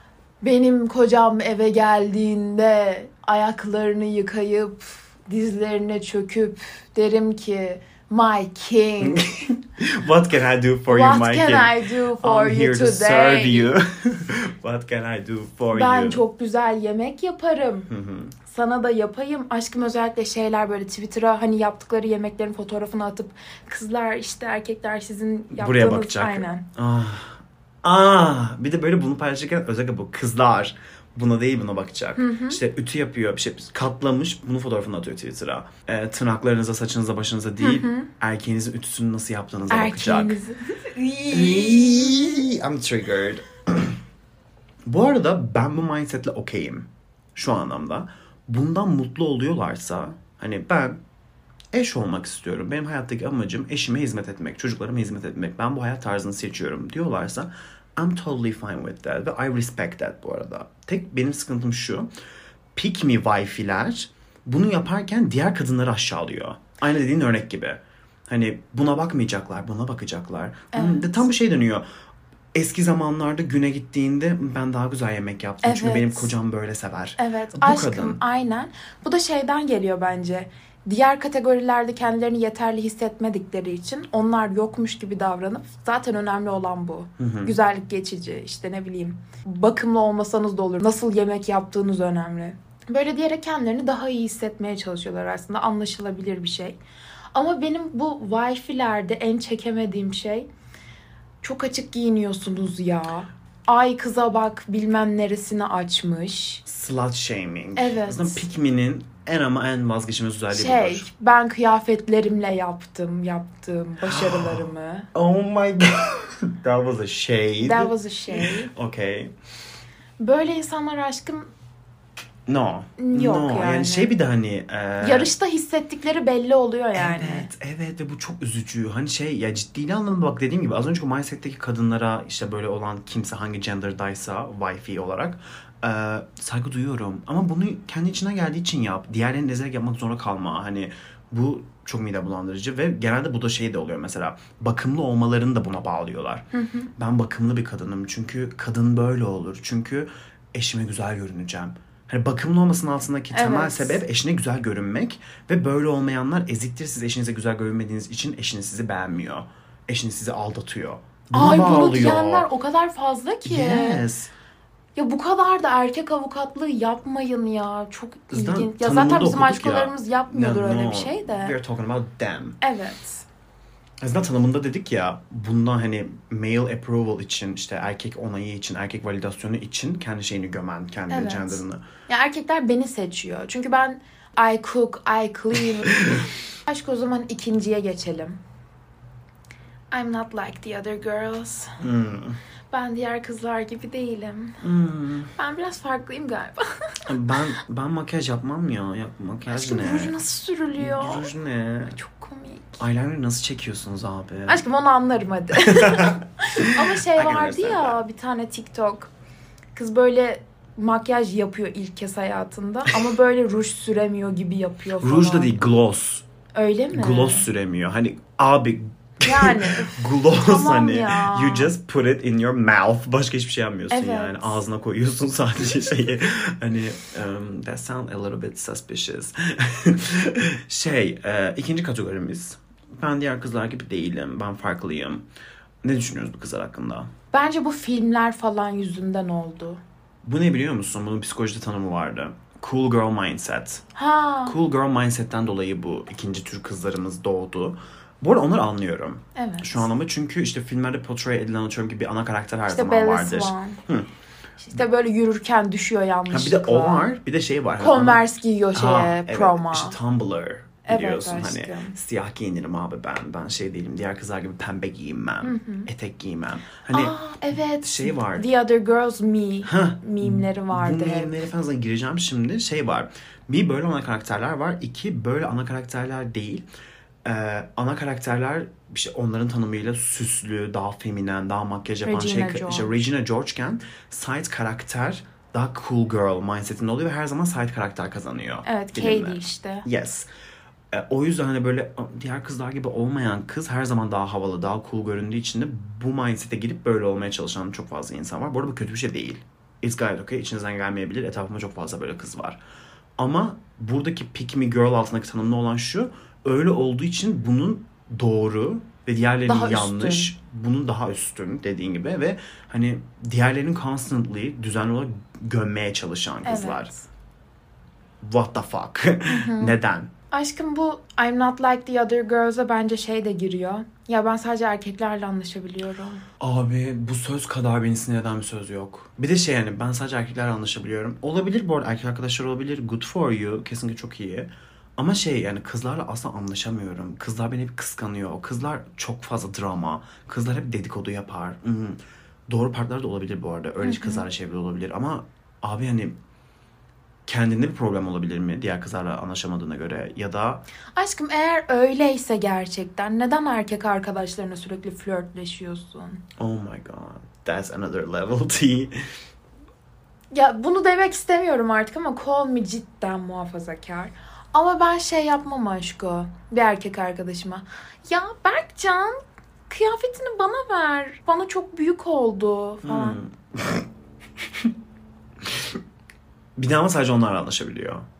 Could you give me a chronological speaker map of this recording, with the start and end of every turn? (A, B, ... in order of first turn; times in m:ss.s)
0:00.4-0:09.3 A
0:09.0-0:16.2 B
0:10.9-0:13.7 A
0:15.7-0:17.9 A
0:17.9-0:18.3 B
0:18.4-0:26.6 A
0:25.5-0:40.4 B
0:32.2-0:32.6 A
0:37.6-0:38.1 A
0:39.7-0:42.4 A
0:41.3-0:44.0 B
0:44.8-0:51.0 B
0:51.7-1:02.1 B
1:02.7-1:11.8 B
1:10.7-1:11.3 A
1:12.5-1:18.2 B
1:15.6-1:16.3 A
1:17.2-1:36.8 A
1:27.2-1:27.6 B
1:37.3-1:40.5 A
1:41.4-1:46.6 A
1:46.6-1:51.1 B
1:47.8-1:48.4 A
1:50.5-1:55.1 A
1:54.0-1:59.3 B
1:57.6-1:58.7 A
2:00.2-2:01.5 A
2:02.5-2:05.3 B
2:03.0-2:04.1 A
2:05.0-2:07.5 A
2:06.9-2:26.4 B
2:26.5-2:26.9 A
2:27.0-2:42.5 B
2:33.3-2:34.0 A
2:41.3-2:44.0 A
2:43.4-2:44.3 B
2:45.0-2:51.5 A
2:48.3-2:52.6 B
2:52.6-2:53.2 A
2:54.0-3:01.8 B
3:01.1-3:08.4 A
3:05.8-3:06.3 B
3:09.9-3:11.8 A
3:11.8-3:12.4 B
3:12.7-3:14.6 A
3:14.6-3:15.3 B
3:15.4-3:17.0 A
3:17.0-3:20.2 B
3:19.5-3:21.3 A
3:20.8-3:22.0 B
3:21.8-3:22.8 A
3:22.8-3:24.6 B
3:24.5-3:29.1 A
3:25.6-3:28.0 B
3:29.7-3:35.6 A
3:35.0-3:36.2 B
3:36.5-3:37.5 A
3:36.9-3:55.2 B
3:39.2-3:41.7 A
3:43.9-3:44.6 A
3:55.8-3:57.1 B
3:57.3-3:59.8 A
4:00.2-4:03.8 B
4:03.9-4:04.6 A
4:04.4-4:14.1 B
4:09.4-4:09.8 A
4:12.7-4:13.8 A
4:14.6-4:17.1 A
4:16.3-4:27.2 B
4:17.8-4:20.0 A
4:20.8-4:21.9 A
4:25.4-4:25.9 A
4:26.9-4:31.3 A
4:27.8-4:28.4 B
4:29.6-4:36.6 B
4:37.2-4:50.3 B
4:42.0-4:42.9 A
4:48.6-4:49.9 A
4:50.9-5:02.6 B
5:03.2-5:16.9 B
5:09.4-5:10.3 A
5:16.4-5:17.0 A
5:18.2-5:20.1 B
5:19.3-5:19.8 A
5:20.3-5:26.2 A
5:26.4-5:46.2 B
5:43.8-5:44.3 A
5:47.3-5:50.6 B
5:51.0-5:56.2 A
5:56.4-5:59.0 B
6:00.3-6:13.2 A
6:12.8-6:13.9 B
6:14.4-6:14.7 B
6:15.4-6:15.8 B
6:16.6-6:18.0 B